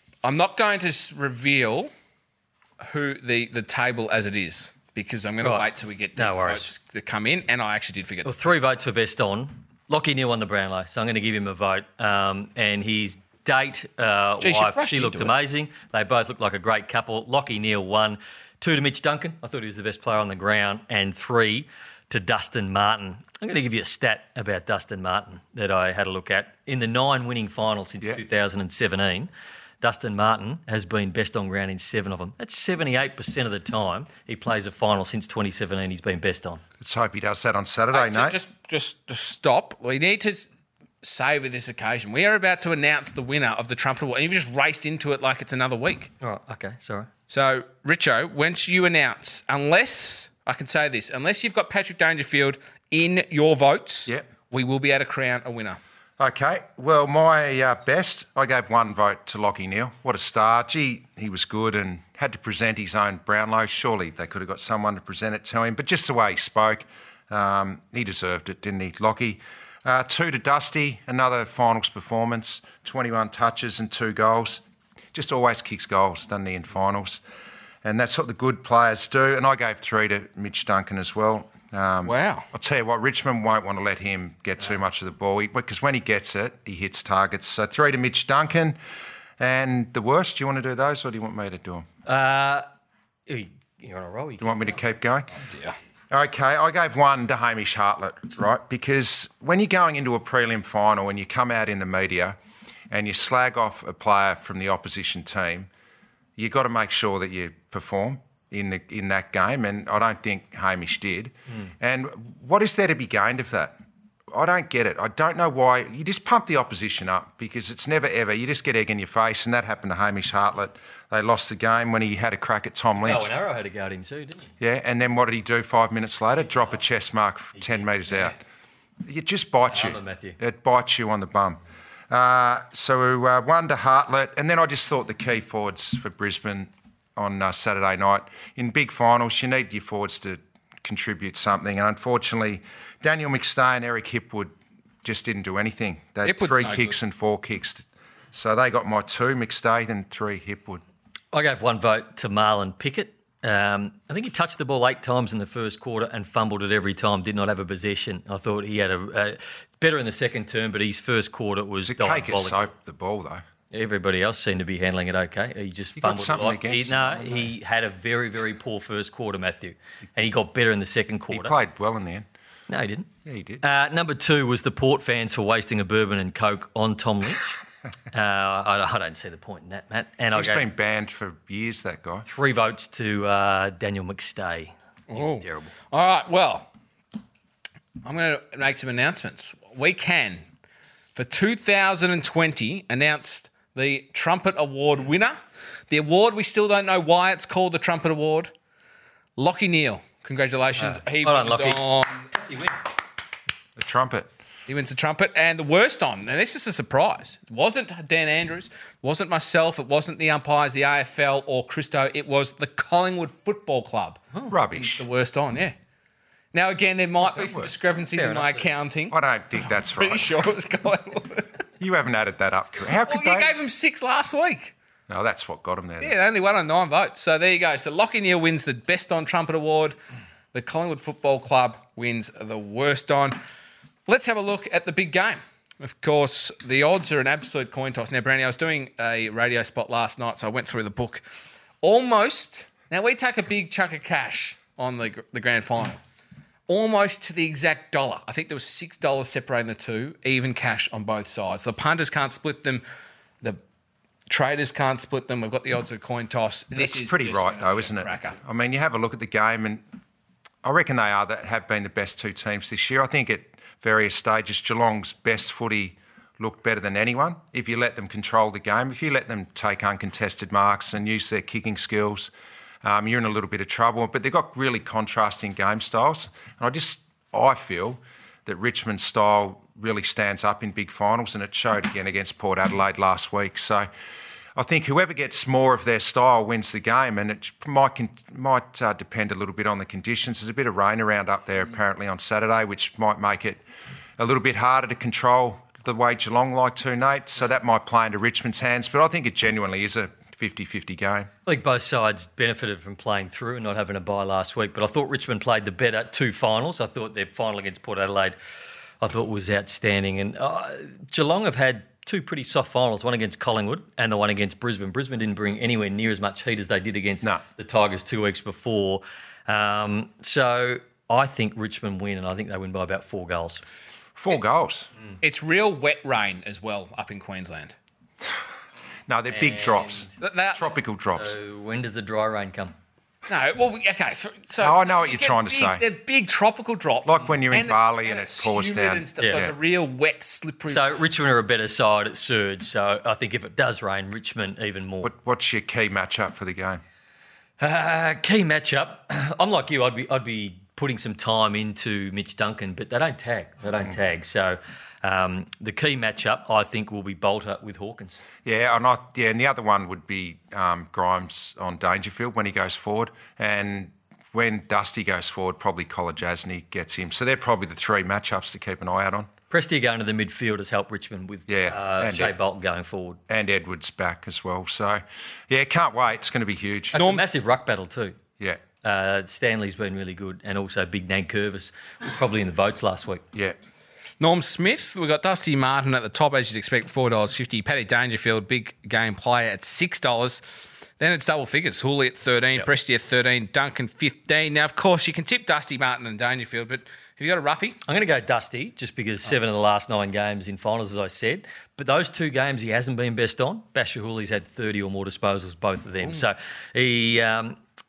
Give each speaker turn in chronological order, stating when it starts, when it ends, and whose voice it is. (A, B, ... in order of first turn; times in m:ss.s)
0:00.2-0:01.9 A
0:02.8-0:08.5 A
0:05.4-0:06.7 B
0:08.2-0:36.6 B
0:14.4-0:15.3 A
0:36.8-0:38.4 C
0:37.9-0:40.5 A
0:41.0-0:46.1 A
0:46.2-0:47.1 B
0:47.3-0:55.8 A
0:56.2-1:14.6 C
1:15.1-1:17.2 C
1:17.8-1:28.8 C
1:22.0-1:22.5 A
1:29.4-1:31.8 C
1:32.0-1:32.6 B
1:33.3-1:34.6 B
1:34.4-1:35.3 C
1:35.4-1:35.8 A
1:36.1-1:42.4 C
1:42.9-1:45.7 C
1:46.4-1:53.7 C
1:54.3-2:03.3 C
2:03.0-2:04.5 B
2:04.6-2:08.4 C
2:07.6-2:08.3 B
2:09.0-2:30.8 C
2:09.7-2:10.4 B
2:26.2-2:27.0 A
2:31.3-2:42.7 B
2:41.8-2:43.4 C
2:43.7-2:51.5 B
2:46.0-2:47.5 C
2:51.3-2:52.3 C
2:52.7-2:53.1 B
2:53.2-2:53.6 C
2:53.6-3:00.7 B
3:00.3-3:02.3 C
3:02.2-3:05.7 B
3:05.1-3:06.7 A
3:08.0-3:10.4 A
3:11.1-3:18.5 A
3:19.4-3:22.3 A
3:20.8-3:22.8 B
3:23.8-3:24.3 C
3:24.7-3:35.8 A
3:34.5-3:35.0 C
3:36.5-3:39.2 A
3:37.4-3:37.7 C
3:38.1-3:38.7 B
3:39.1-3:40.4 C
3:39.8-3:41.5 A
3:41.8-3:43.5 C
3:43.0-3:44.7 A
3:45.1-3:46.2 C
3:46.0-3:50.0 A
3:50.5-3:53.4 A
3:54.0-4:01.2 A
4:01.8-4:06.0 A
4:06.7-4:12.8 A
4:14.3-4:18.4 A
4:16.8-4:19.8 C
4:20.6-4:32.3 C
4:32.8-4:43.9 C
4:44.5-4:53.6 C
4:54.2-5:01.3 C
5:01.4-5:08.4 B
5:09.0-5:23.6 B
5:24.2-5:24.9 C
5:25.2-5:27.7 A
5:29.1-5:31.4 C
5:29.3-5:30.2 B
5:30.2-5:30.7 A
5:31.1-5:32.7 B
5:33.3-5:41.0 A
5:34.6-5:35.8 C
5:37.0-5:39.5 C
5:39.2-5:39.5 B
5:40.7-5:45.1 B
5:45.0-5:46.8 C
5:47.6-5:58.2 B
5:58.4-6:09.3 C
6:09.5-6:13.2 B
6:11.5-6:12.3 C
6:13.3-6:17.0 C
6:16.9-6:17.3 A
6:16.9-6:18.2 B
6:18.8-6:23.2 B
6:24.2-6:37.8 A
6:37.8-6:47.6 B